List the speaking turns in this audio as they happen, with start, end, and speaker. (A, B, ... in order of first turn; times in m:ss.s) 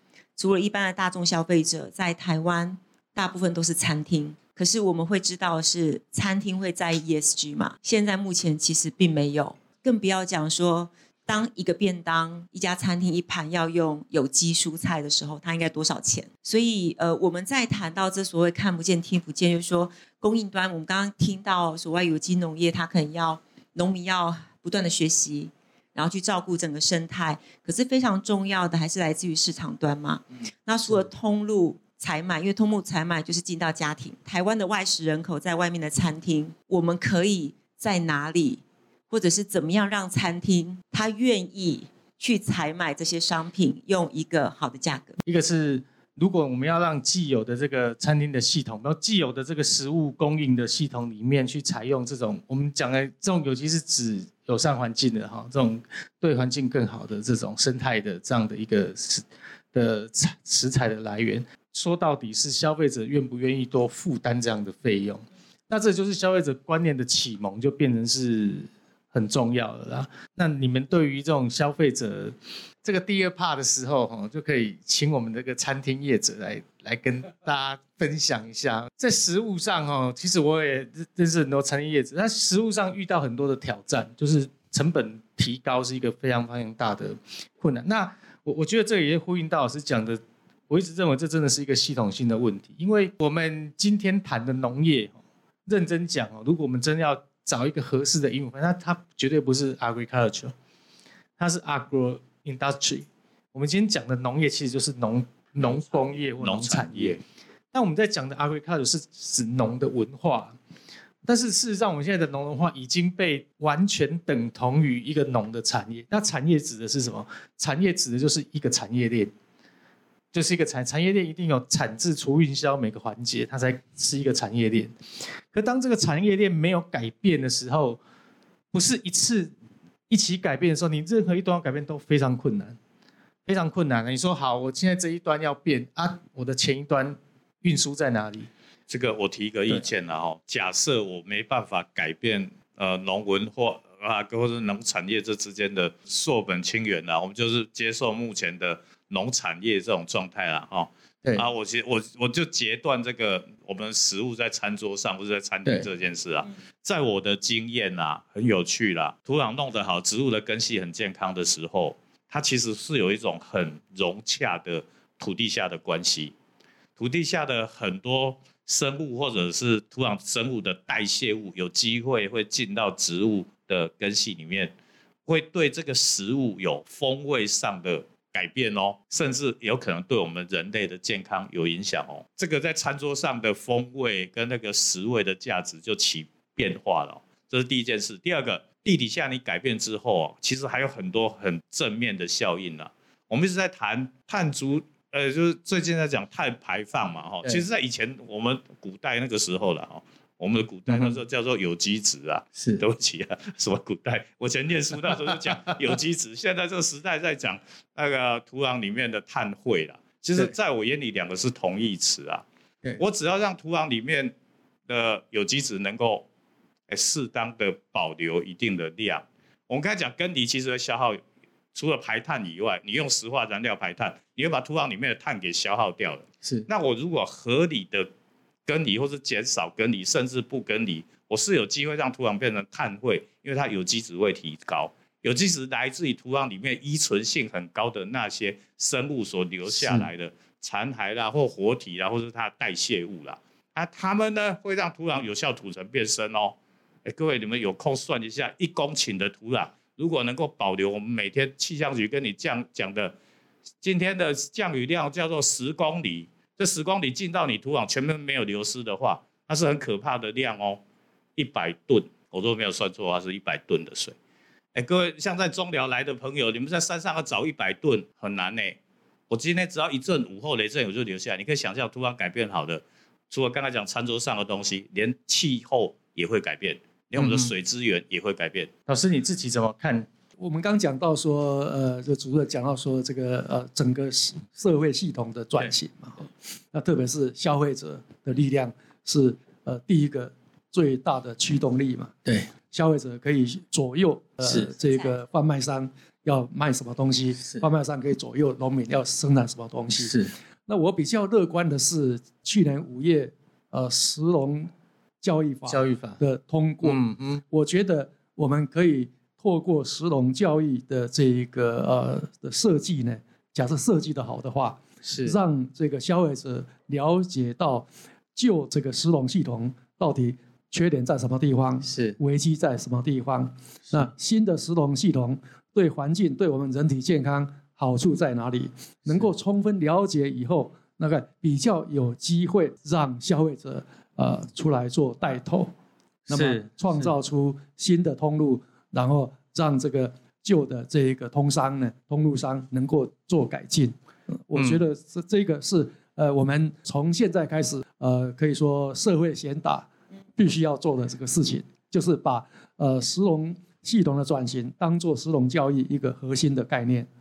0:00.4-0:45.2 A
0:45.2-1:40.5 B
1:41.4-1:47.2 B
1:46.4-1:47.2 C
1:47.7-1:50.6 B
1:51.2-1:59.3 B
2:00.3-2:05.0 B
2:05.5-2:08.0 B
2:08.7-2:09.5 B
2:10.1-2:12.8 B
2:13.5-2:18.5 B
2:18.9-2:46.3 C
2:47.0-2:54.7 C
2:55.3-3:32.4 C
3:20.9-3:21.2 B
3:22.6-3:22.8 B
3:25.1-3:25.8 B
3:33.0-3:34.3 C
3:34.9-3:36.3 C
3:36.9-3:41.2 C
3:41.7-3:48.1 C
3:48.7-4:13.2 C
3:59.7-4:00.1 B
4:13.8-4:20.8 C
4:21.4-4:24.2 C
4:24.7-4:28.8 C
4:29.3-4:38.7 C
4:37.2-4:37.5 B
4:38.9-4:40.1 B
4:40.4-4:52.1 D
4:52.7-5:04.7 D
4:54.4-4:54.7 B
4:57.4-4:57.7 B
5:00.0-5:00.3 B
5:05.2-5:35.7 D
5:05.7-5:06.2 B
5:06.8-5:07.4 B
5:15.0-5:15.4 B
5:21.8-5:22.2 B
5:36.3-5:37.1 B
5:36.3-5:44.0 D
5:44.5-5:57.1 D
5:44.6-5:44.8 B